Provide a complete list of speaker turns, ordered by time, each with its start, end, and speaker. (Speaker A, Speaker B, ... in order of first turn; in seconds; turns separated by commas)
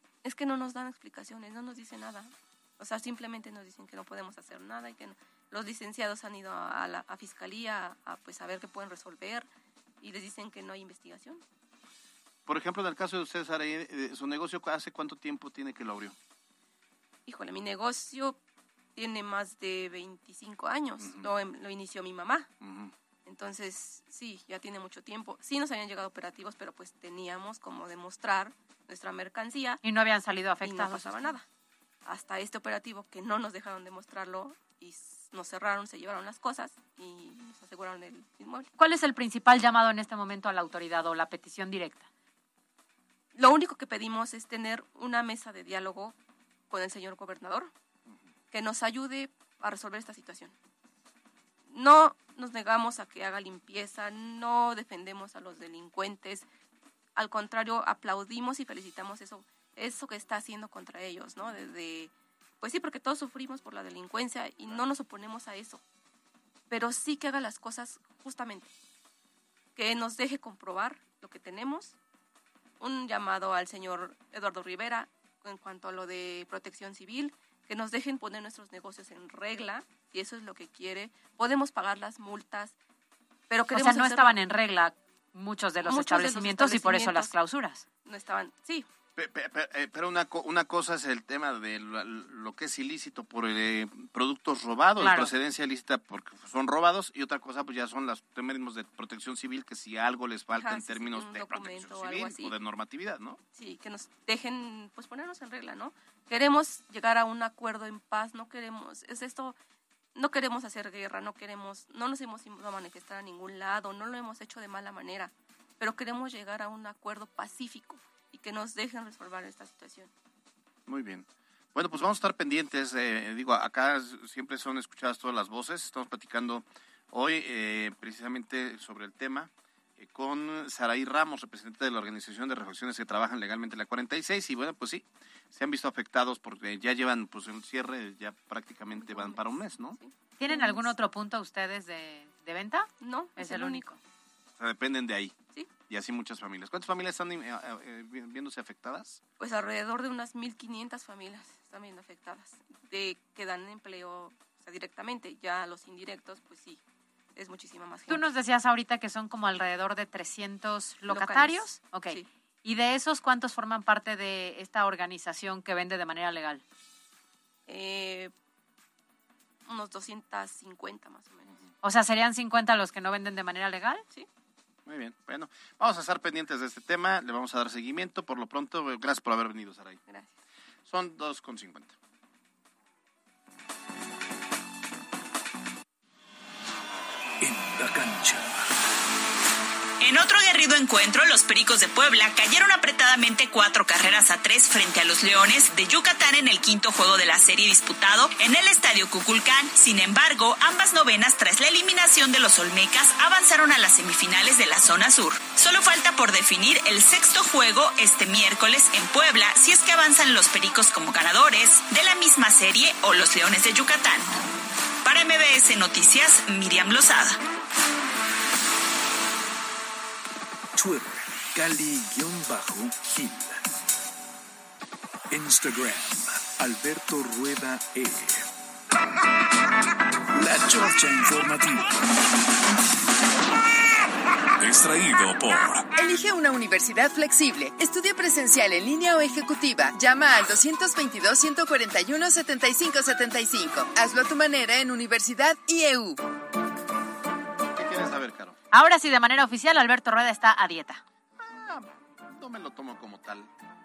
Speaker A: 0.2-9.5, Speaker A: 10.0-11.4, Speaker B: 12.4-16.1, Speaker A: 17.2-18.4, Speaker A: 18.9-22.5, Speaker B: 21.0-21.3, Speaker B: 22.6-22.9, Speaker A: 23.2-29.8, Speaker C: 29.8-31.3, Speaker A: 30.6-31.4, Speaker A: 32.0-38.7, Speaker C: 38.8-42.0, Speaker A: 43.3-46.1, Speaker A: 46.7-47.7, Speaker A: 48.5-50.5, Speaker A: 51.7-56.5, Speaker A: 57.1-65.8, Speaker A: 66.7-68.7, Speaker A: 69.8-72.0, Speaker A: 72.8-82.7, Speaker A: 83.5-84.4, Speaker C: 83.7-87.8, Speaker A: 85.8-87.3, Speaker A: 88.0-88.9, Speaker B: 89.2-103.4, Speaker C: 95.0-95.3, Speaker A: 100.5-102.5, Speaker A: 103.5-109.5, Speaker A: 110.2-120.1, Speaker B: 120.9-140.0, Speaker A: 138.9-140.9, Speaker C: 140.4-144.0, Speaker A: 143.0-143.9, Speaker B: 144.6-149.2, Speaker A: 149.4-156.8, Speaker A: 157.3-158.2, Speaker C: 158.1-166.6, Speaker A: 161.1-162.3, Speaker A: 167.7-168.3, Speaker A: 169.7-171.5, Speaker C: 171.8-174.0, Speaker B: 174.8-180.0, Speaker A: 180.1-180.3, Speaker B: 180.9-181.9, Speaker D: 187.4-188.6, Speaker E: 190.0-214.3, Speaker E: 215.0-217.4, Speaker D: 220.7-223.6, Speaker D: 225.3-228.5, Speaker D: 230.3-232.0, Speaker D: 234.6-235.9, Speaker F: 235.9-246.2, Speaker B: 247.7-248.6, Speaker C: 248.7-251.0, Speaker B: 251.4-253.5